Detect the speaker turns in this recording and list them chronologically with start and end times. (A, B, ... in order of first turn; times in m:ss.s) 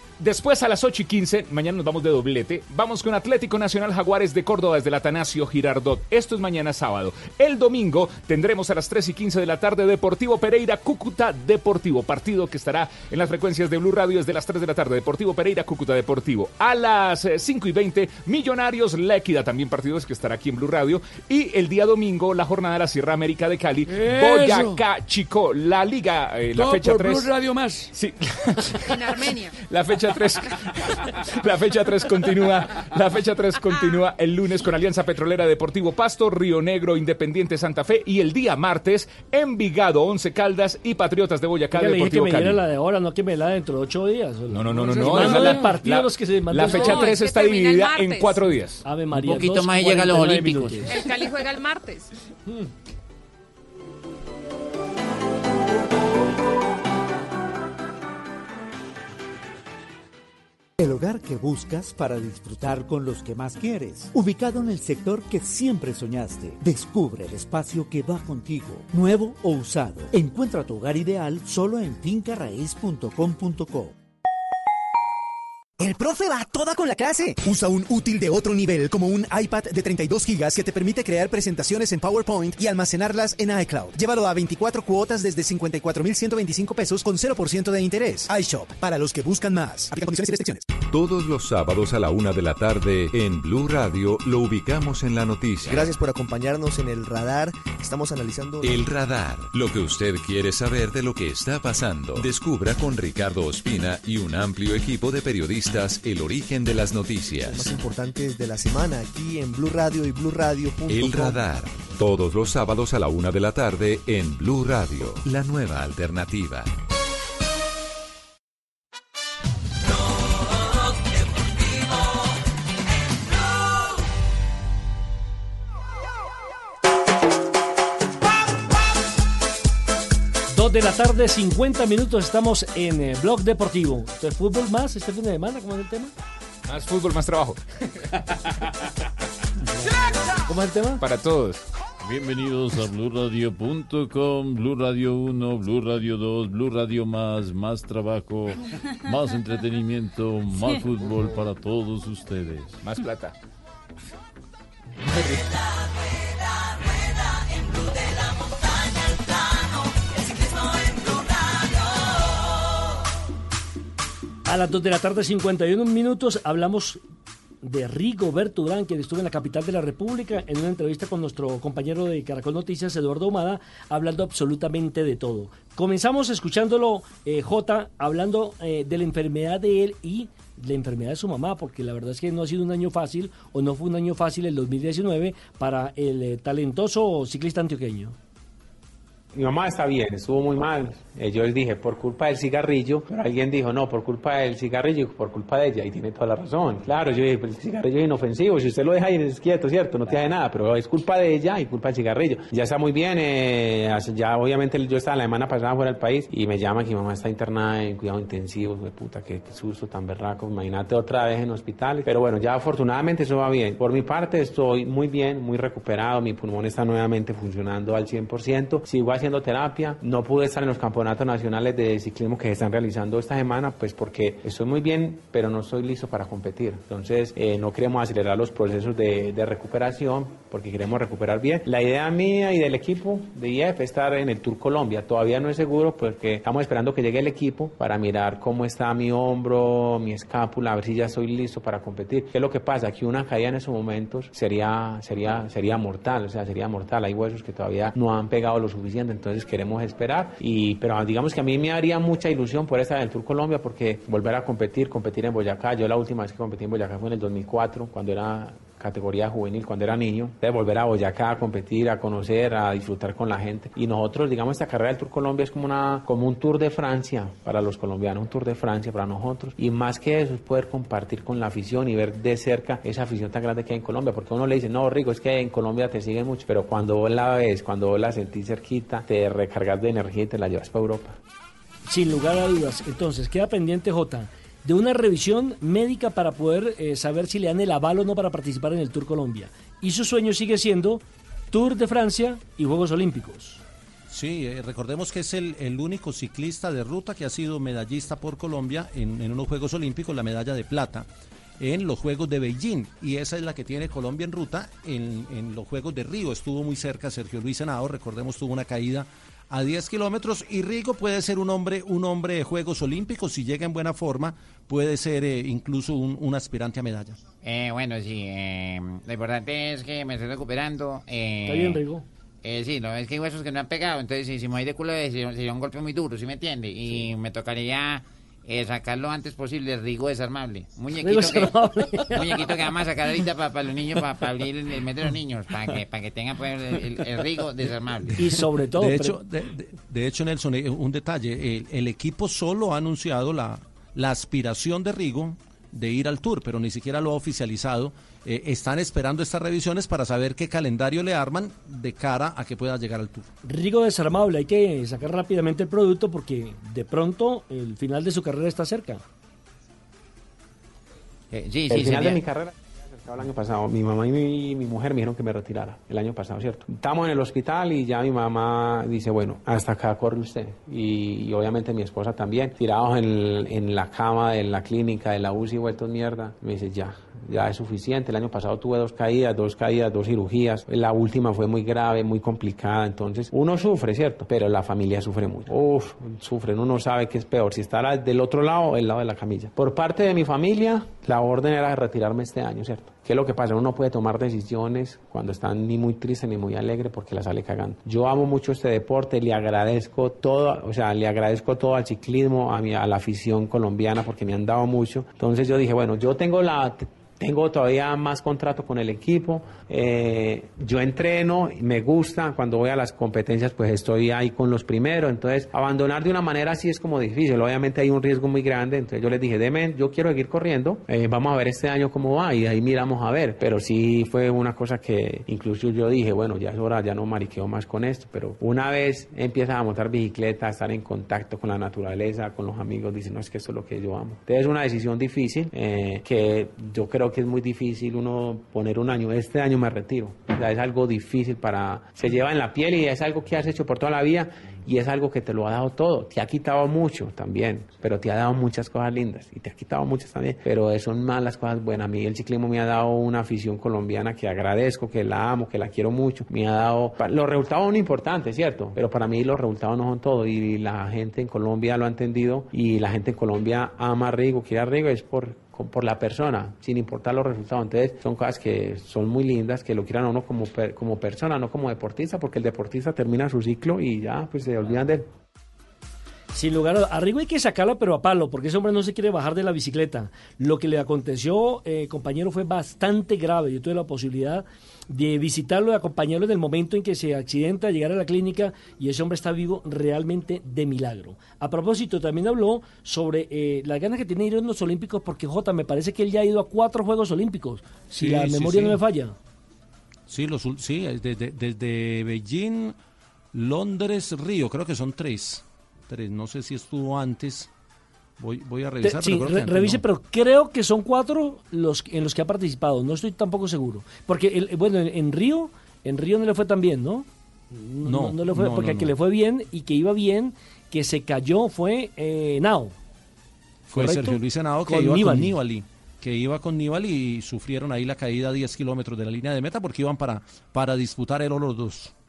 0:00.2-0:27.4 A
0:23.9-0:24.8 B
0:26.6-0:27.9 B
0:27.9-0:42.6 A
0:28.9-0:29.6 C
0:41.7-0:47.2 D
0:44.5-0:48.8 A
0:46.7-0:48.4 C
0:48.8-0:51.0 D
0:49.1-0:50.9 E
0:50.9-0:52.1 C
1:00.8-1:13.9 F
1:15.8-1:30.7 G
1:30.8-1:35.9 H
1:35.7-1:38.7 I
1:38.6-1:47.7 H
1:50.9-1:56.7 H
2:10.5-2:16.1 D
2:16.7-2:17.6 A
2:20.5-2:21.0 D
2:21.0-2:21.6 A
2:22.0-2:32.8 J
2:32.8-2:33.3 A
2:44.5-2:47.0 D
2:47.6-3:08.2 D
3:09.4-4:41.2 K
4:41.9-4:53.6 D
4:54.1-5:01.1 L
5:01.6-5:17.2 L
5:17.4-5:21.8 E
5:21.5-5:22.0 D
5:22.4-5:31.5 E
5:31.0-5:32.4 D
5:32.1-5:38.2 E
5:38.1-5:53.3 L
5:38.2-5:39.2 D
5:53.4-5:59.0 D
6:01.3-6:02.2 E
6:01.7-7:55.1 K
7:56.3-8:19.2 D
8:18.0-8:18.8 L
8:20.1-8:22.8 L
8:23.3-8:27.5 L
8:28.2-8:29.8 L
8:28.8-8:42.8 D
8:37.8-8:38.9 L
8:43.7-8:51.9 L
8:43.7-8:45.4 D